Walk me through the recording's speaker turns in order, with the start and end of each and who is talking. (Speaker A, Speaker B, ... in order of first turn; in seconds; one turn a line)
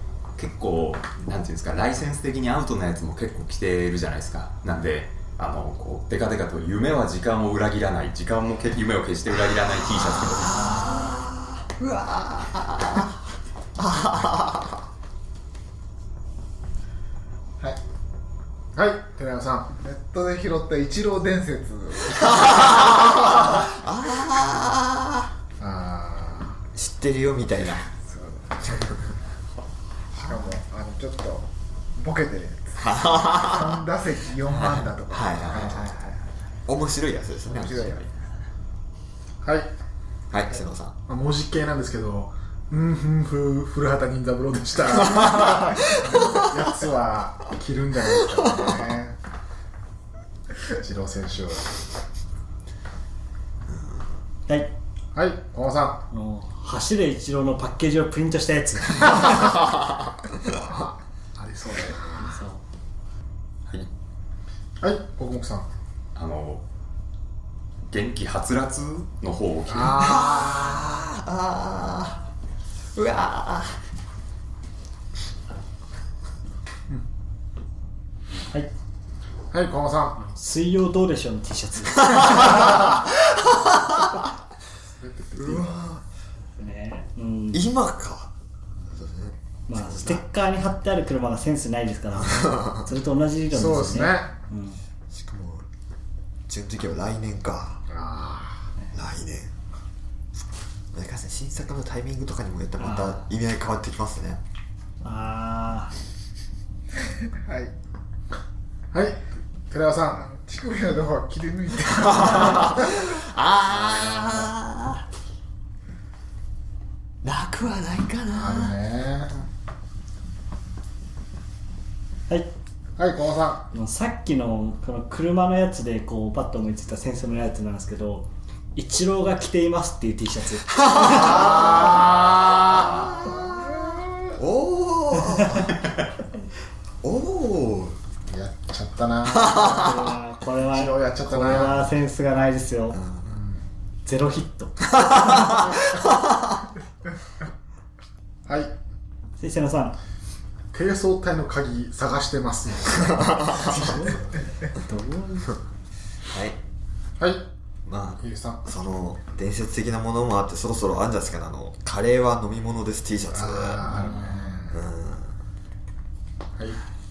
Speaker A: 0.4-10.9
Speaker B: 10.3-13.2
Speaker B: 13.8-14.8
Speaker C: 18.8-19.7
Speaker D: 19.8-22.5
Speaker B: 22.1-25.3
Speaker C: 25.6-26.6
Speaker B: 26.8-27.9
Speaker D: 28.0-28.9
Speaker D: 30.2-36.2
Speaker B: 32.8-33.8
Speaker B: 34.6-35.9
Speaker B: 36.7-37.9
Speaker D: 37.5-38.0
Speaker A: 37.6-38.1
Speaker C: 39.4-39.7
Speaker B: 40.3-41.0
Speaker C: 41.1-49.2
Speaker B: 44.9-46.5
Speaker C: 50.7-51.7
Speaker E: 54.5-54.7
Speaker C: 55.1-56.1
Speaker E: 56.1-59.7
Speaker C: 60.5-62.4
Speaker E: 62.2-62.6
Speaker C: 64.8-65.7
Speaker A: 66.2-66.6
Speaker A: 67.9-70.1
Speaker C: 69.7-70.8
Speaker B: 70.0-72.2
Speaker B: 73.0-73.8
Speaker C: 79.5-80.2
Speaker E: 80.2-82.8
Speaker B: 83.5-83.9
Speaker C: 85.0-85.9
Speaker B: 85.4-86.0
Speaker E: 86.6-87.6
Speaker B: 87.5-88.3
Speaker B: 88.9-90.2
Speaker E: 89.7-94.8
Speaker B: 92.4-92.7
Speaker C: 93.5-94.3
Speaker B: 95.1-95.7
Speaker B: 96.5-97.8
Speaker C: 97.9-98.7
Speaker B: 98.9-99.5
Speaker B: 100.9-104.4
Speaker E: 102.8-103.2
Speaker E: 105.0-105.9
Speaker D: 107.3-107.7
Speaker C: 108.9-110.2
Speaker D: 110.2-112.7
Speaker B: 112.0-115.0
Speaker B: 117.2-118.8
Speaker C: 118.3-119.5
Speaker C: 123.0-123.7
Speaker E: 123.7-131.7
Speaker B: 131.2-133.4
Speaker C: 131.4-132.2
Speaker B: 134.4-135.8
Speaker B: 137.0-138.0
Speaker C: 138.3-140.0
Speaker B: 139.3-139.7
Speaker E: 139.6-143.0
Speaker C: 140.7-141.9
Speaker B: 142.9-143.3
Speaker C: 143.2-143.7
Speaker E: 144.1-146.0
Speaker C: 148.5-148.7
Speaker E: 149.4-150.0
Speaker C: 150.7-154.0
Speaker E: 153.6-155.6
Speaker B: 156.3-156.6
Speaker C: 157.2-157.5
Speaker B: 157.9-163.9
Speaker C: 158.2-158.6
Speaker C: 163.3-164.8
Speaker E: 163.8-164.6
Speaker B: 164.7-165.3